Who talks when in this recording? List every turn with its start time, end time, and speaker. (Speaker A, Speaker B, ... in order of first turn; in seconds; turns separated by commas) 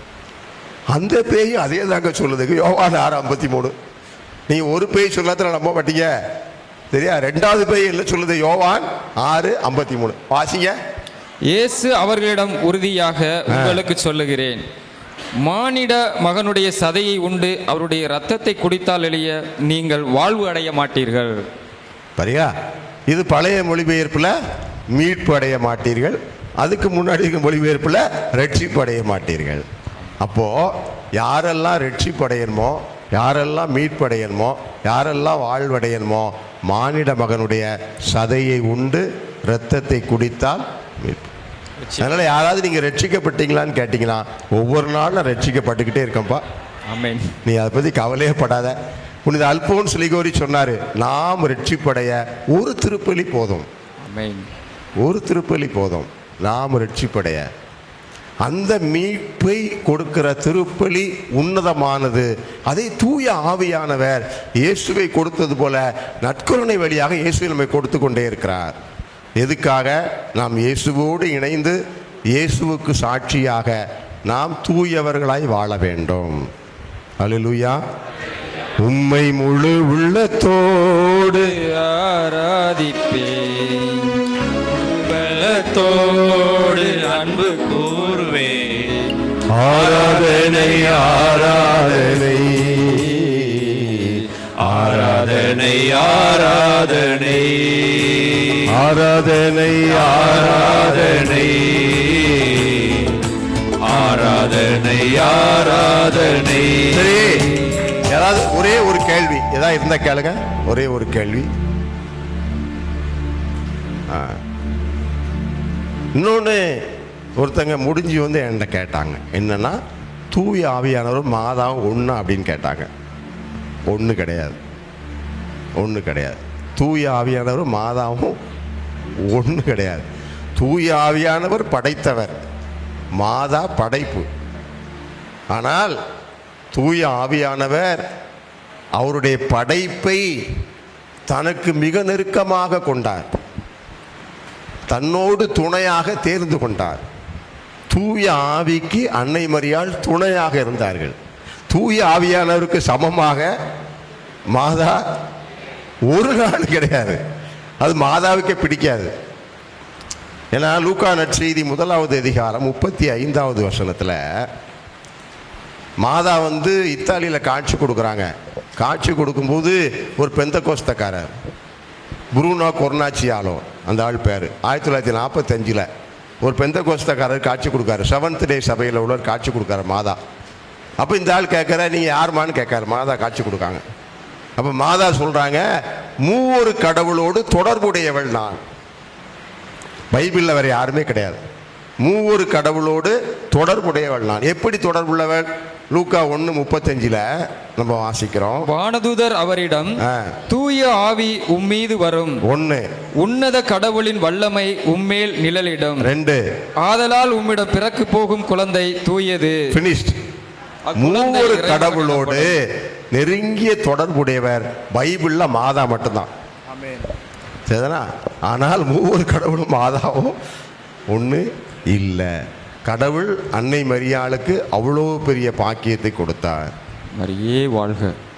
Speaker A: 0.9-3.7, Speaker A: 4.5-6.1, Speaker A: 6.9-10.8, Speaker B: 11.5-14.6, Speaker A: 13.5-13.8, Speaker B: 15.4-21.4, Speaker A: 22.2-22.5, Speaker A: 23.1-24.4, Speaker A: 24.9-29.7, Speaker A: 30.2-41.3, Speaker A: 42.0-46.4, Speaker B: 46.9-47.3, Speaker A: 47.4-53.7, Speaker B: 54.0-54.5, Speaker A: 55.0-57.5, Speaker A: 58.4-68.8, Speaker A: 69.4-71.8, Speaker A: 72.3-76.5, Speaker A: 77.2-77.8, Speaker A: 78.8-81.5, Speaker B: 81.5-84.2, Speaker C: 84.7-88.9, Speaker A: 89.5-95.5, Speaker C: 89.7-92.2, Speaker C: 94.6-98.6, Speaker A: 98.7-101.3, Speaker C: 99.9-103.2, Speaker C: 103.8-107.1, Speaker A: 106.9-107.5, Speaker A: 108.1-111.5, Speaker A: 114.1-114.4, Speaker A: 116.2-119.8, Speaker A: 120.3-122.9, Speaker A: 123.9-124.6, Speaker A: 125.8-128.4, Speaker A: 129.2-132.3, Speaker A: 133.2-134.3, Speaker A: 135.5-136.0, Speaker A: 136.7-138.1, Speaker A: 139.0-140.3, Speaker A: 141.3-143.3, Speaker A: 144.9-147.0, Speaker A: 147.9-151.2, Speaker A: 151.7-153.6, Speaker A: 154.5-155.0, Speaker A: 156.1-157.2, Speaker A: 157.8-159.1, Speaker A: 160.5-164.5, Speaker A: 166.0-171.3, Speaker A: 172.3-175.9, Speaker A: 176.4-180.2, Speaker A: 181.0-183.8, Speaker A: 184.6-185.7, Speaker A: 186.2-188.6, Speaker A: 190.1-191.4, Speaker A: 192.0-198.7, Speaker B: 198.7-202.4, Speaker A: 200.0-200.4, Speaker A: 202.4-202.9, Speaker B: 203.2-206.1, Speaker A: 206.0-206.4, Speaker B: 206.8-209.7, Speaker A: 209.7-210.2, Speaker B: 210.9-212.6, Speaker A: 211.0-216.3, Speaker A: 217.7-220.4, Speaker A: 221.1-226.7, Speaker B: 227.2-228.2